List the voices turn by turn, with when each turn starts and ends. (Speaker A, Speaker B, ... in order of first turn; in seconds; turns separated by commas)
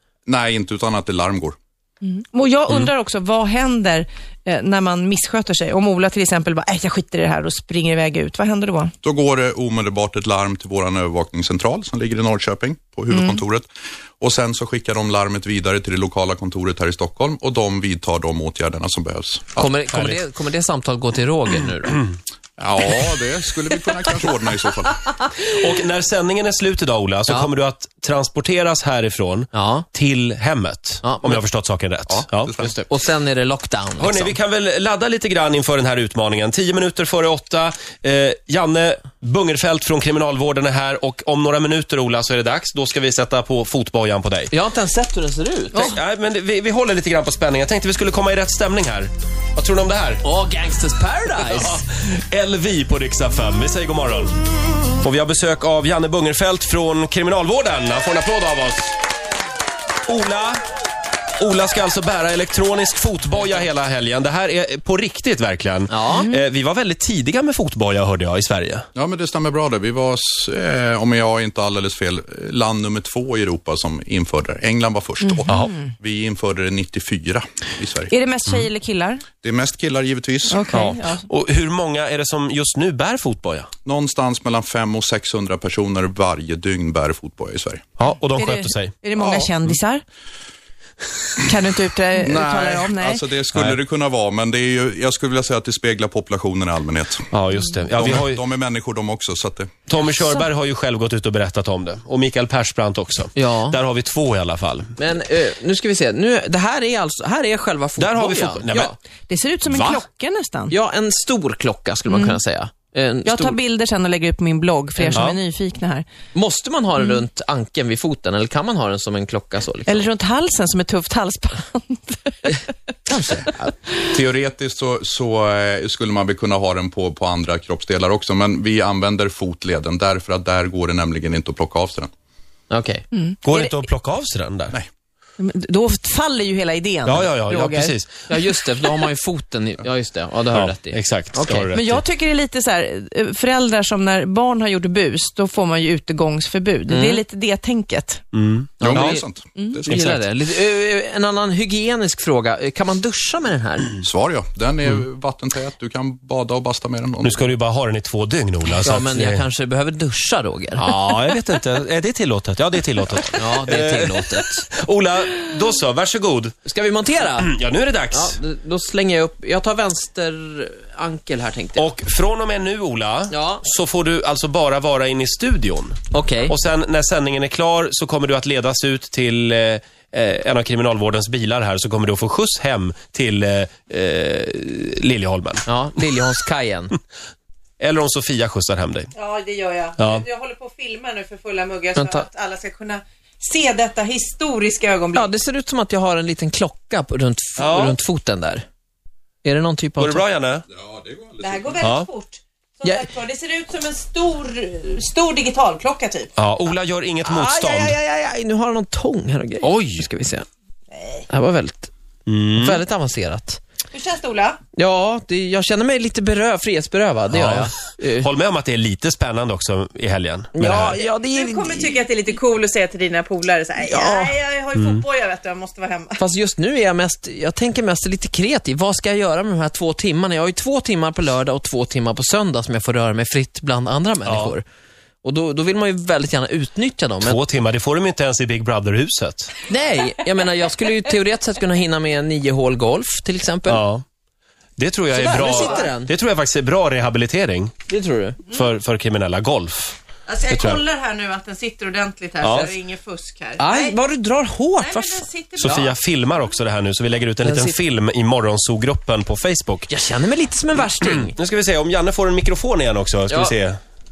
Speaker A: 0.3-1.6, Speaker B: 2.0-8.9, Speaker A: 9.0-13.7, Speaker B: 13.1-13.4, Speaker A: 14.2-19.7, Speaker C: 19.6-22.0, Speaker D: 19.9-20.2, Speaker A: 22.6-25.1, Speaker D: 25.4-32.6, Speaker C: 29.5-29.9, Speaker C: 31.0-31.4, Speaker A: 32.1-32.8, Speaker C: 32.6-34.4, Speaker D: 34.0-44.5, Speaker C: 44.5-46.0, Speaker D: 45.7-50.2, Speaker C: 50.2-51.8, Speaker D: 51.6-54.4, Speaker D: 55.0-58.9, Speaker D: 60.1-60.6, Speaker D: 61.4-68.9, Speaker C: 65.9-66.3, Speaker B: 66.1-66.4, Speaker A: 69.0-78.1, Speaker B: 75.3-75.7, Speaker B: 78.1-79.2, Speaker A: 79.4-80.6, Speaker B: 80.5-81.2, Speaker D: 80.7-83.7, Speaker A: 83.8-87.9, Speaker D: 88.0-88.9, Speaker B: 88.4-90.0, Speaker A: 89.2-89.5, Speaker B: 91.4-93.2, Speaker A: 92.2-97.3, Speaker D: 97.3-98.4, Speaker A: 97.9-99.7, Speaker D: 99.9-104.9, Speaker C: 103.3-103.8, Speaker C: 105.0-109.0, Speaker D: 108.0-108.9, Speaker B: 109.3-110.7, Speaker D: 109.7-110.0, Speaker C: 110.7-113.5, Speaker B: 112.1-112.4, Speaker B: 113.2-116.1, Speaker C: 115.0-115.3, Speaker C: 116.3-120.1, Speaker B: 119.9-122.7, Speaker C: 123.1-123.7, Speaker A: 124.1-132.1, Speaker C: 132.7-133.1, Speaker B: 133.1-133.7, Speaker D: 133.4-134.8, Speaker B: 135.4-137.9, Speaker D: 137.1-138.2, Speaker C: 138.3-141.7, Speaker D: 140.5-142.0, Speaker B: 141.7-148.2, Speaker C: 146.9-147.2, Speaker D: 148.3-149.2, Speaker C: 148.8-149.2, Speaker A: 148.8-149.9, Speaker C: 149.9-154.0, Speaker D: 149.9-150.2, Speaker A: 154.0-157.5, Speaker D: 157.2-159.4, Speaker C: 158.8-161.0, Speaker D: 160.8-166.6, Speaker C: 163.4-164.7, Speaker C: 166.7-167.5, Speaker D: 167.4-168.4, Speaker C: 168.1-171.9, Speaker D: 171.8-185.7, Speaker C: 173.3-173.6, Speaker C: 176.1-176.6, Speaker C: 185.7-186.9, Speaker D: 187.8-189.1, Speaker B: 189.2-195.3, Speaker D: 190.0-190.2, Speaker C: 191.9-192.3, Speaker C: 195.1-198.7, Speaker D: 197.6-198.0, Speaker C: 199.4-200.3, Speaker D: 200.0-200.7, Speaker A: 200.8-201.8, Speaker B: 201.4-206.3, Speaker D: 201.8-202.1, Speaker C: 202.8-203.1, Speaker D: 206.4-208.0, Speaker C: 207.2-210.5, Speaker D: 209.6-210.1, Speaker C: 211.3-211.9, Speaker D: 212.3-212.8, Speaker C: 212.5-213.6, Speaker B: 213.9-214.6, Speaker C: 214.8-218.3, Speaker D: 217.3-221.0, Speaker C: 220.6-222.0, Speaker B: 220.8-226.2, Speaker C: 223.8-224.4, Speaker D: 224.8-225.1, Speaker C: 226.2-234.6, Speaker D: 234.2-234.6, Speaker C: 235.2-237.4, Speaker D: 237.2-239.5, Speaker C: 239.7-243.8, Speaker D: 243.7-244.0, Speaker D: 244.8-247.7, Speaker C: 245.1-246.1, Speaker B: 245.3-245.9, Speaker C: 247.9-248.4, Speaker D: 248.5-250.0, Speaker B: 250.3-254.0, Speaker D: 250.5-250.8, Speaker D: 252.4-252.7, Speaker C: 252.4-252.7, Speaker C: 253.6-255.9, Speaker B: 254.8-255.9, Speaker D: 255.6-259.9, Speaker C: 257.4-257.8, Speaker C: 259.9-261.4, Speaker D: 261.0-263.8, Speaker C: 263.3-263.6